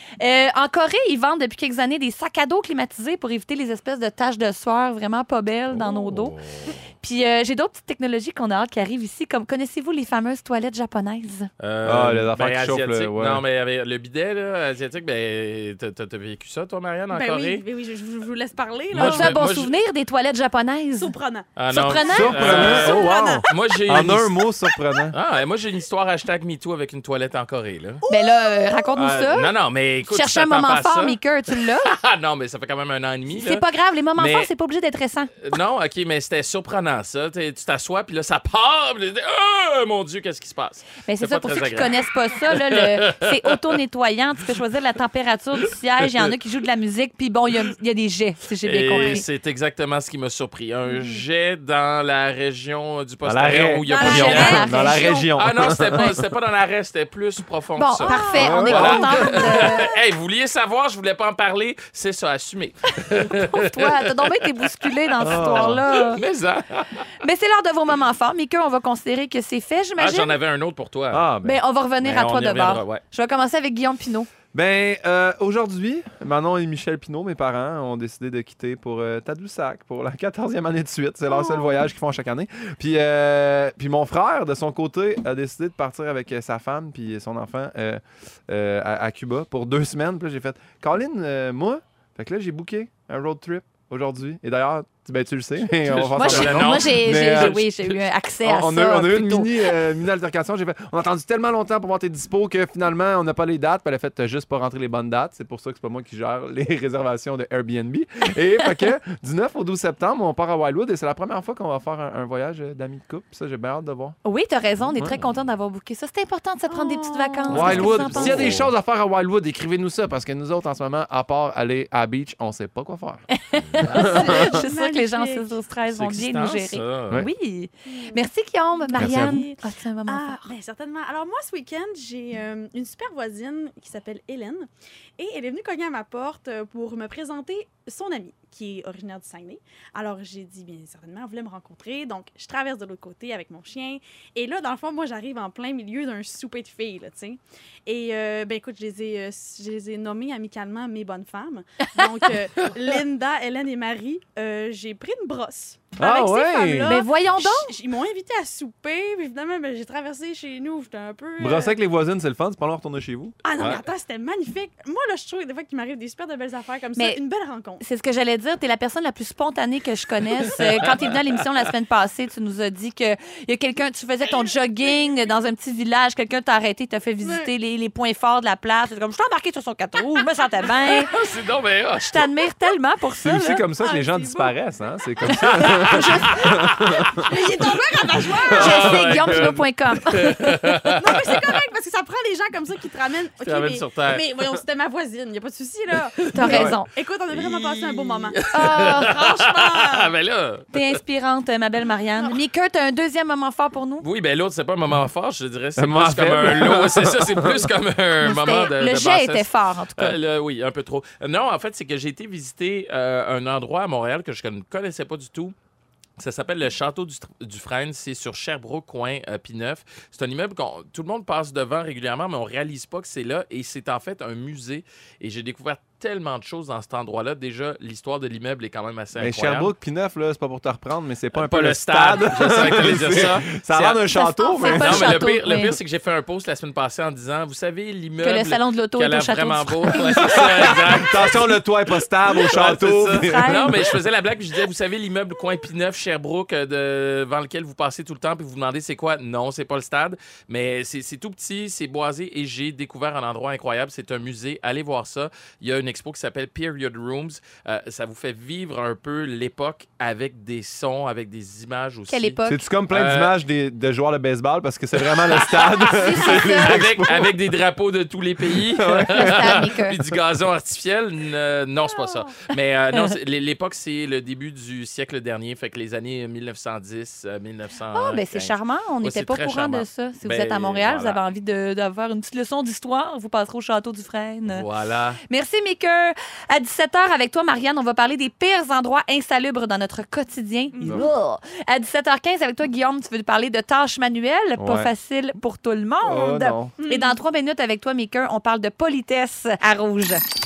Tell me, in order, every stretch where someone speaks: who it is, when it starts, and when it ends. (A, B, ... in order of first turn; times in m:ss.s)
0:00.2-0:06.4 A
0:05.7-0:06.8 B
0:07.0-0:11.5 A
0:11.6-0:17.6 B
0:11.8-0:13.4 C
0:17.1-0:19.4 D
0:18.9-0:19.7 B
0:18.9-0:21.1 A
0:21.0-0:21.5 D
0:21.6-0:24.5 B
0:21.7-0:22.6 A
0:22.1-0:23.7 D
0:22.1-0:25.1 C
0:25.1-0:28.0 B
0:28.0-0:28.9 D
0:28.1-0:29.5 A
0:29.0-0:29.3 C
0:29.3-0:33.6 B
0:30.1-0:32.0 A
0:33.3-0:35.3 A
0:34.1-0:34.5 B
0:35.4-0:43.3 B
0:41.0-0:49.2 A
0:48.6-0:54.8 B
0:48.9-0:49.2 D
0:50.8-0:51.2 D
0:53.2-0:56.2 C
0:53.9-0:55.2 A
0:53.9-0:55.3 D
0:55.3-1:07.1 B
0:57.8-0:59.9 A
0:58.0-0:59.7 D
0:58.3-0:59.4 C
1:03.2-1:06.2 A
1:05.2-1:05.8 C
1:07.2-1:10.3 A
1:10.0-1:11.4 B
1:11.1-1:11.6 C
1:11.4-1:14.3 A
1:12.0-1:13.0 B
1:14.5-1:37.6 C
1:21.3-1:21.9 D
1:35.8-1:38.0 B
1:36.2-1:39.7 A
1:38.4-1:54.2 C
1:54.2-1:58.6 A
1:56.7-1:58.3 D
1:57.5-2:03.2 C
1:57.5-1:58.7 B
2:03.3-2:10.5 A
2:03.8-2:04.5 C
2:04.0-2:05.5 D
2:05.9-2:07.2 B
2:07.8-2:08.2 D
2:08.8-2:41.8 D
2:09.0-2:09.4 C
2:36.0-2:37.0 C
2:36.9-2:37.7 A
2:41.4-2:43.3 C
2:43.4-2:47.8 D
2:47.8-3:01.1 A
2:57.2-2:57.5 D
3:01.1-3:02.3 B
3:02.0-3:03.6 A
3:03.2-3:07.2 C
3:03.8-3:04.5 D
3:05.4-3:07.1 B
3:07.2-3:09.0 D
3:08.2-3:11.3 B
3:08.5-3:10.9 A
3:11.0-3:20.1 D
3:13.4-3:14.2 B
3:16.3-3:16.9 A
3:16.4-3:16.8 C
3:17.3-3:20.9 B
3:18.5-3:19.1 A
3:20.7-3:24.0 A
3:24.0-3:35.5 B
3:25.8-3:27.7 C
3:28.2-3:30.2 A
3:36.2-3:49.7 B
3:49.2-3:55.2 C
3:51.3-3:54.0 B
3:54.1-3:55.8 A
3:54.6-4:01.5 B
3:58.2-4:00.7 A
4:00.2-4:03.8 C
4:02.4-4:23.3 B
4:03.1-4:03.8 A
4:22.1-4:22.6 A
4:22.5-4:27.3 C
4:24.9-4:41.2 B
4:25.9-4:26.8 A
4:28.4-4:29.7 C
4:29.1-4:30.0 A
4:31.8-4:32.4 D
4:37.9-4:44.6 A
4:44.5-4:45.2 B
4:45.3-5:00.2 A
4:50.7-4:51.1 D
4:50.8-4:51.1 C
4:54.6-4:54.9 C
4:56.0-4:56.7 C
4:56.8-4:57.2 D